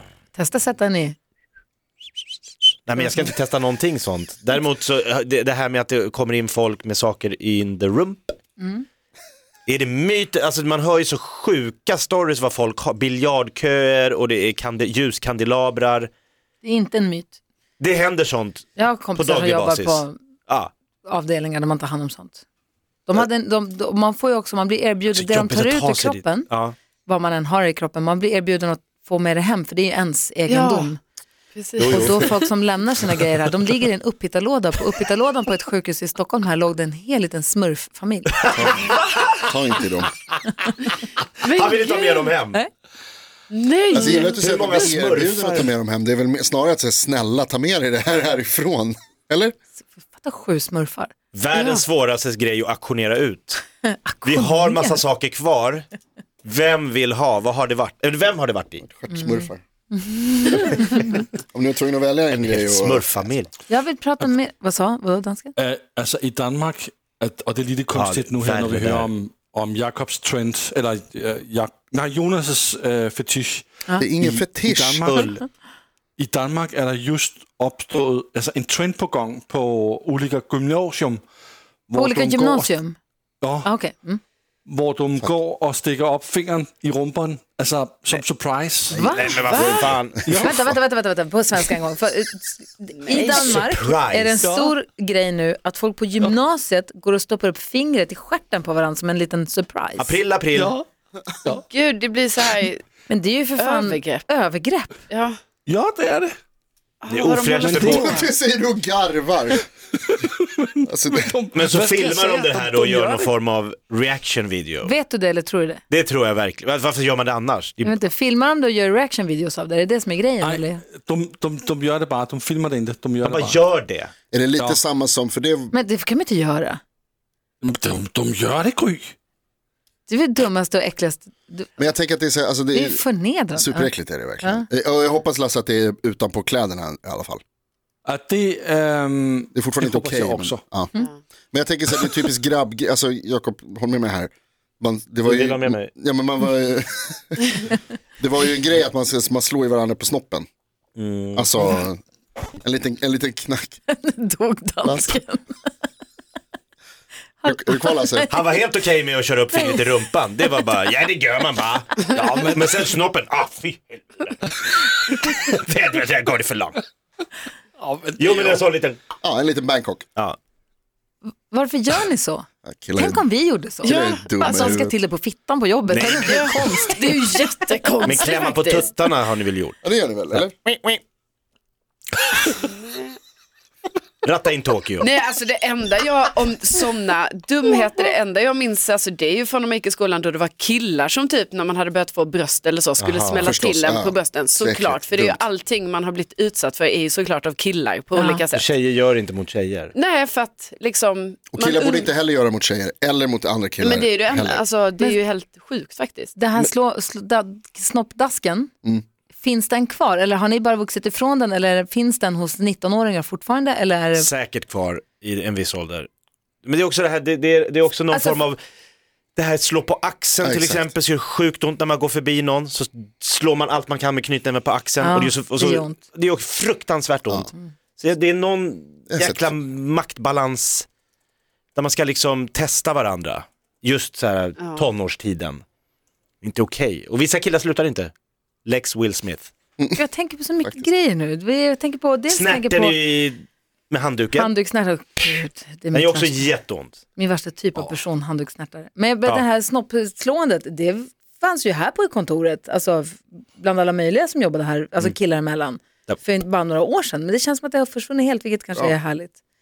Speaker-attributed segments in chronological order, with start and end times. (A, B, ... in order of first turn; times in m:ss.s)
0:00.3-0:01.2 A
0:02.9-0:08.4 B
0:08.6-0:08.8 A
0:09.7-0:16.1 B
0:16.6-0:17.4 A
0:17.8-0:20.7 B
0:18.8-0:20.1 A
0:21.0-0:22.4 A
0:23.1-0:26.5 A
0:25.1-0:26.7 B
0:27.0-0:31.0 A
0:30.5-0:30.9 C
0:31.5-0:32.2 C
0:31.8-0:32.4 B
0:31.8-0:38.7 A
0:38.4-0:39.3 B
0:38.6-0:40.1 D
0:41.4-0:42.3 C
0:41.5-0:42.6 B
0:43.5-0:44.9 C
0:43.9-0:49.5 D
0:44.0-0:45.7 B
0:49.9-0:51.1 A
0:51.3-0:53.6 B
0:51.5-0:51.8 C
0:53.8-0:55.0 A
0:54.2-0:55.8 B
0:56.4-0:58.8 B
0:58.8-0:59.6 D
0:59.1-1:01.1 A
1:01.5-1:03.2 D
1:02.3-1:03.5 B
1:03.7-1:05.5 A
1:05.6-1:13.7 E
1:07.9-1:09.1 B
1:14.0-1:15.1 D
1:14.2-1:15.4 E
1:15.1-1:15.4 B
1:16.2-1:21.2 E
1:21.9-1:22.8 E
1:21.9-1:23.0 A
1:23.4-1:23.7 E
1:23.6-1:24.2 A
1:24.6-1:29.3 E
1:28.9-1:29.4 A
1:29.0-1:30.3 B
1:29.4-1:29.8 C
1:29.6-1:30.1 D
1:30.2-1:30.8 E
1:30.4-1:40.2 A
1:33.0-1:33.6 C
1:33.3-1:34.4 B
1:34.4-1:34.7 E
1:40.0-1:40.8 B
1:40.5-1:40.8 E
1:41.7-1:42.8 C
1:43.1-1:45.0 A
1:43.6-1:44.2 C
1:45.1-1:45.4 C
1:45.7-1:46.4 E
1:47.0-1:48.3 C
1:47.1-1:48.1 B
1:47.6-1:48.3 E
1:48.0-1:49.6 D
1:50.0-1:52.5 E
1:50.9-1:51.3 D
1:51.5-1:54.9 B
1:52.2-1:53.2 C
1:54.8-1:55.8 A
1:55.9-1:57.9 B
1:57.8-2:00.8 A
2:00.4-2:03.6 E
2:03.2-2:04.1 B
2:04.3-2:05.7 D
2:05.7-2:06.8 A
2:07.6-2:09.1 E
2:10.1-2:11.7 A
2:11.8-2:13.0 D
2:12.7-2:13.9 A
2:13.5-2:17.4 D
2:18.0-2:20.6 E
2:19.5-2:21.0 D
2:21.5-2:30.4 D
2:25.2-2:25.9 B
2:31.0-2:31.8 B
2:31.3-2:32.0 D
2:32.6-2:33.8 D
2:33.9-2:35.4 A
2:34.8-2:35.2 D
2:37.4-2:38.4 A
2:37.4-2:38.3 D
2:38.3-2:46.8 B
2:39.5-2:39.8 A
2:42.1-2:42.8 E
2:47.8-2:48.6 E
2:48.2-2:49.0 B
2:49.2-2:50.0 D
2:51.5-2:57.5 A
2:52.6-2:53.2 D
2:53.8-2:54.9 D
2:53.8-2:54.2 C
2:55.9-2:56.8 B
2:56.1-2:58.9 C
2:58.0-2:59.8 B
2:59.8-3:00.5 D
3:00.3-3:01.0 B
3:02.5-3:03.1 C
3:04.2-3:05.1 B
3:05.0-3:18.7 C
3:13.0-3:13.6 B
3:13.4-3:15.4 D
3:18.1-3:18.4 A
3:18.5-3:19.9 B
3:19.9-3:22.1 C
3:21.5-3:24.6 D
3:23.8-3:26.3 C
3:26.4-3:28.7 A
3:29.4-3:34.3 A
3:34.2-3:36.1 B
3:36.6-3:38.6 B
3:38.1-3:38.4 A
3:39.4-3:50.9 B
3:40.4-3:40.9 D
3:45.0-3:46.0 A
3:49.1-3:49.5 D
3:51.7-3:55.6 B
3:56.4-3:58.1 B
3:58.6-3:59.5 B
4:00.0-4:03.0 A
4:02.3-4:04.5 B
4:04.3-4:06.5 A
4:05.9-4:07.0 B
4:07.2-4:19.3 A